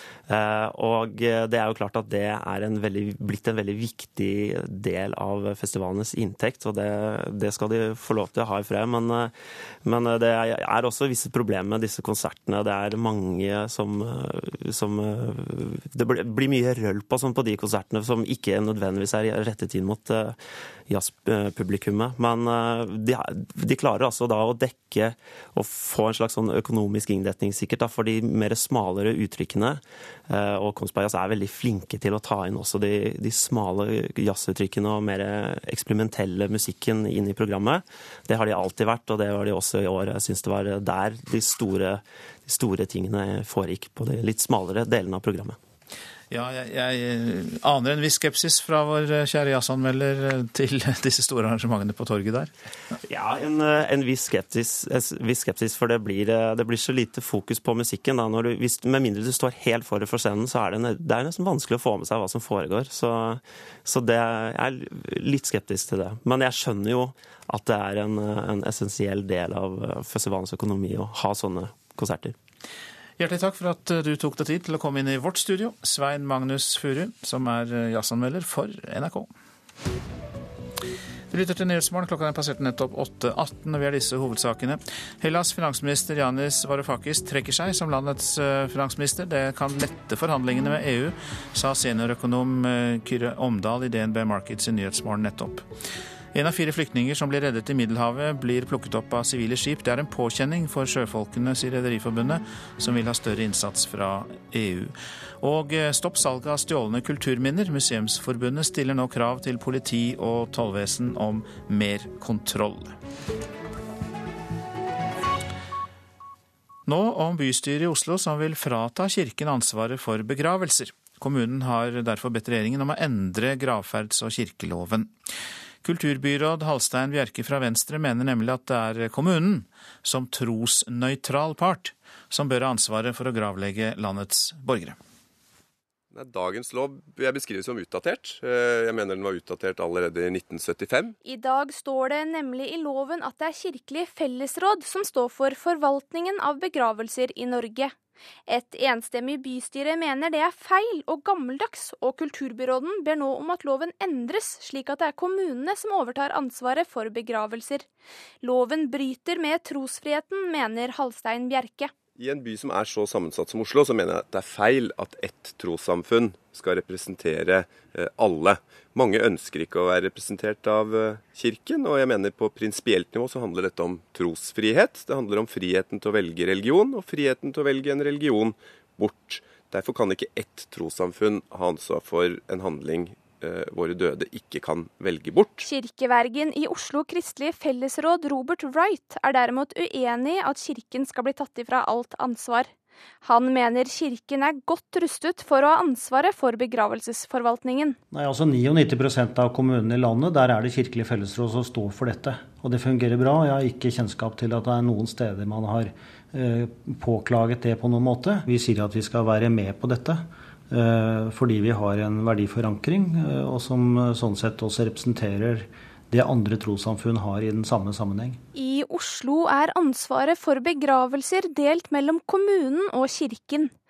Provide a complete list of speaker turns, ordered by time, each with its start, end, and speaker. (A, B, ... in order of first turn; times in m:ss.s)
0:00.3-0:09.3 A
0:09.8-0:20.4 A
0:20.9-0:45.6 A
0:46.3-0:52.5 B
0:53.1-1:12.3 A
1:13.2-1:19.3 B
1:21.3-1:35.7 B
1:36.3-1:53.0 B
1:56.8-2:05.1 B
2:05.8-2:15.0 B
2:16.1-2:21.1 C
2:21.2-2:27.9 D
2:28.5-2:37.9 D
2:38.4-2:41.9 D
2:42.2-3:05.7 C
3:05.6-3:12.7 D
3:13.2-3:18.0 D
3:18.1-3:38.4 E
3:38.5-3:43.7 D